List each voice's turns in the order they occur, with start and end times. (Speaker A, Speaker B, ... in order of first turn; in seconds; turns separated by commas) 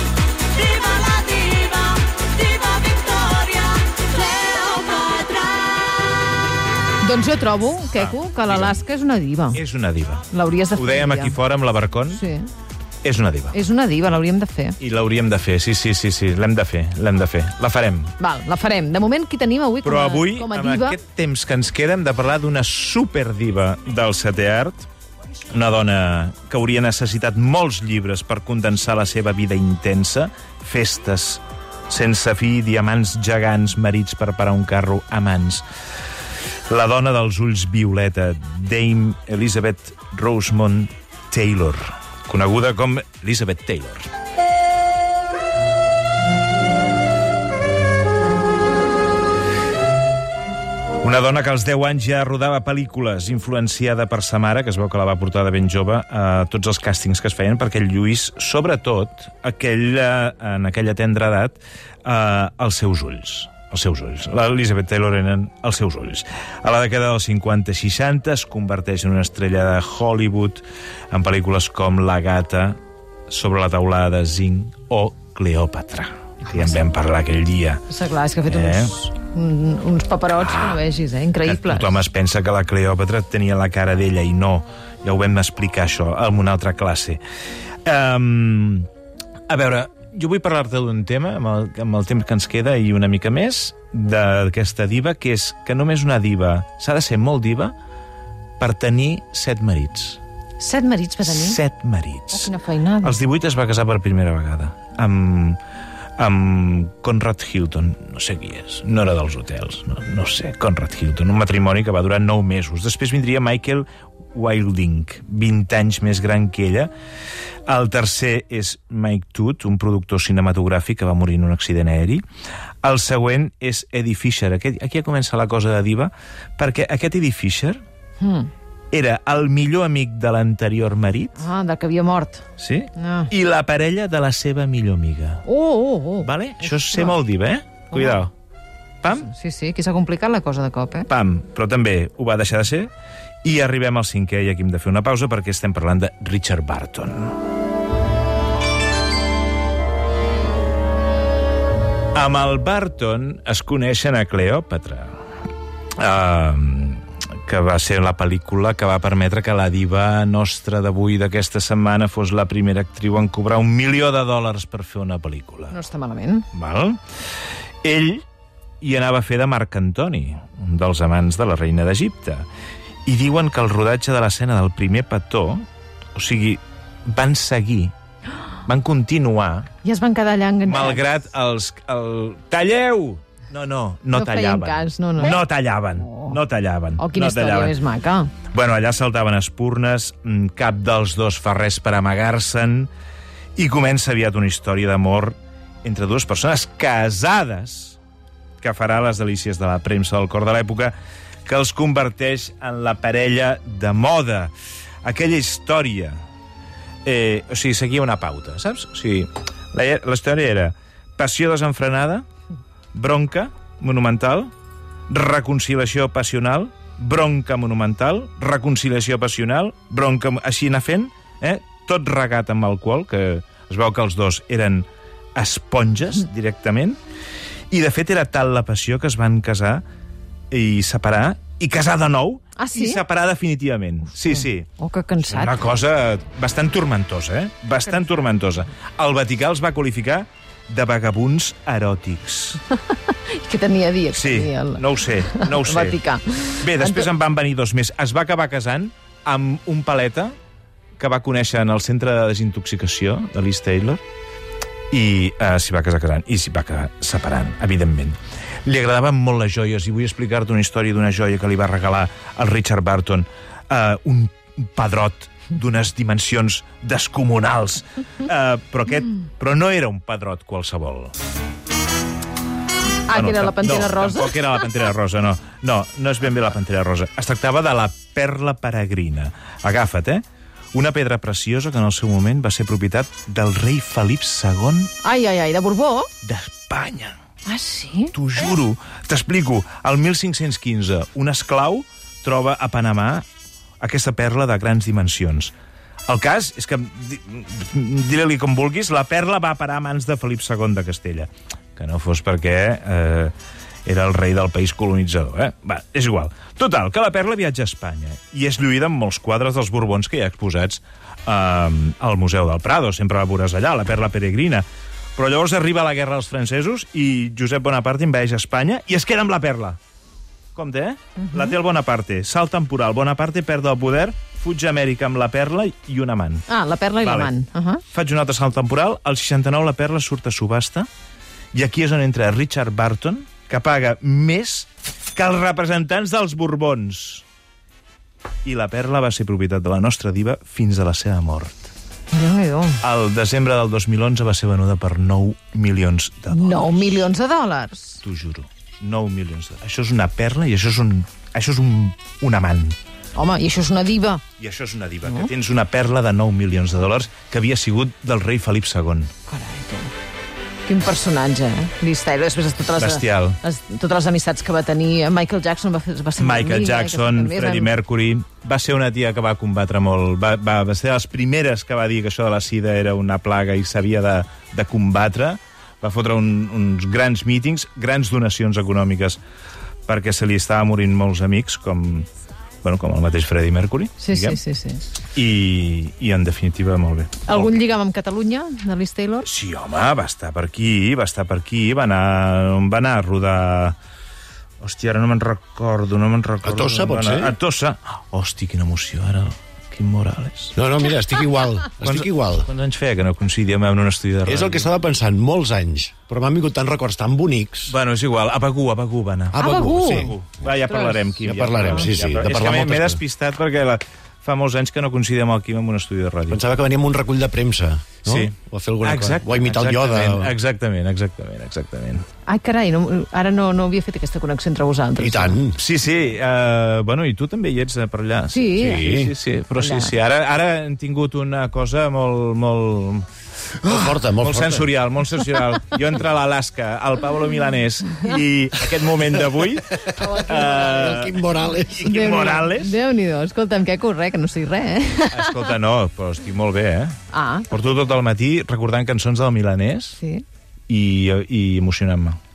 Speaker A: 0.5-5.9, Speaker A: 7.0-9.6, Speaker B: 8.0-8.8, Speaker B: 9.5-12.2, Speaker A: 10.3-11.4, Speaker A: 12.1-12.5, Speaker B: 13.0-13.6, Speaker A: 13.5-14.8, Speaker B: 14.8-18.1, Speaker A: 18.2-21.0, Speaker B: 19.8-24.9, Speaker B: 25.5-35.6, Speaker B: 36.7-44.1, Speaker B: 51.0-72.8, Speaker B: 73.3-77.8, Speaker A: 77.9-82.0, Speaker B: 78.5-78.9, Speaker B: 80.4-80.8, Speaker B: 81.5-87.2, Speaker B: 87.8-88.9, Speaker B: 89.5-97.7, Speaker B: 98.6-100.2, Speaker A: 100.6-101.6, Speaker B: 101.3-102.5, Speaker A: 102.3-103.2, Speaker B: 103.0-105.6, Speaker B: 106.2-116.9, Speaker B: 117.7-122.2, Speaker B: 122.8-127.8, Speaker A: 128.2-128.5, Speaker B: 128.9-131.4, Speaker A: 131.4-132.4, Speaker B: 132.6-135.4, Speaker A: 133.0-133.3, Speaker A: 135.4-137.2, Speaker B: 136.2-138.3, Speaker A: 137.9-138.3, Speaker A: 139.1-141.1, Speaker B: 141.1-142.9, Speaker B: 143.4-147.3, Speaker B: 152.2-155.2, Speaker B: 156.0-165.8, Speaker A: 165.7-166.5, Speaker B: 166.5-167.0, Speaker B: 167.8-168.2, Speaker B: 168.8-172.4, Speaker B: 173.1-177.9, Speaker B: 178.7-179.7, Speaker A: 179.8-181.1, Speaker B: 180.7-187.8, Speaker A: 184.1-185.4, Speaker A: 186.0-186.4, Speaker A: 187.0-188.3, Speaker B: 188.5-192.9, Speaker B: 193.6-198.0, Speaker B: 198.6-200.9, Speaker B: 201.5-204.5, Speaker B: 205.0-206.2, Speaker B: 207.1-212.2, Speaker B: 212.9-214.5, Speaker B: 215.1-227.0, Speaker B: 227.7-229.8, Speaker B: 230.5-234.7, Speaker A: 232.6-233.0, Speaker A: 234.3-235.7, Speaker B: 235.2-242.6, Speaker A: 242.9-247.1, Speaker B: 244.1-246.0, Speaker B: 246.6-250.3, Speaker B: 251.0-254.0, Speaker B: 254.9-271.1, Speaker A: 273.1-274.6, Speaker B: 273.1-280.2, Speaker B: 280.7-284.9, Speaker A: 285.0-286.1, Speaker B: 286.2-287.2, Speaker A: 287.4-288.1, Speaker B: 288.1-293.2, Speaker B: 293.8-295.5, Speaker B: 296.1-303.3, Speaker B: 303.9-314.6, Speaker B: 315.2-319.8, Speaker B: 320.6-326.5, Speaker A: 321.2-321.5, Speaker A: 326.5-327.8, Speaker B: 327.0-327.3, Speaker B: 327.9-330.9, Speaker B: 331.5-337.2, Speaker B: 338.4-341.7, Speaker A: 342.1-342.8, Speaker B: 342.8-347.1, Speaker A: 346.3-348.0, Speaker B: 348.0-352.8, Speaker A: 353.1-354.2, Speaker B: 354.4-359.1, Speaker A: 359.3-359.9, Speaker A: 360.7-367.7, Speaker B: 362.8-363.4, Speaker B: 366.2-379.2, Speaker B: 379.9-382.1, Speaker B: 382.6-384.4, Speaker A: 384.0-384.9, Speaker B: 385.1-387.5, Speaker A: 387.3-389.3, Speaker B: 389.2-393.8, Speaker B: 394.6-400.6, Speaker C: 396.4-397.3, Speaker C: 400.6-402.5, Speaker B: 401.8-404.7, Speaker C: 404.3-407.7, Speaker B: 407.7-416.4, Speaker A: 409.3-410.2, Speaker C: 409.4-410.1, Speaker C: 411.2-413.0, Speaker C: 416.3-420.4, Speaker B: 418.0-422.1, Speaker A: 422.3-425.4, Speaker C: 425.0-425.6, Speaker B: 425.5-433.1, Speaker A: 428.3-428.9, Speaker C: 428.6-429.1, Speaker A: 429.6-429.9, Speaker C: 433.6-434.7, Speaker B: 433.6-442.8, Speaker A: 439.9-441.1, Speaker C: 440.5-441.9, Speaker A: 441.8-445.4, Speaker B: 445.1-447.0, Speaker A: 447.1-447.5, Speaker B: 447.5-450.0, Speaker A: 450.0-450.2, Speaker B: 450.7-452.2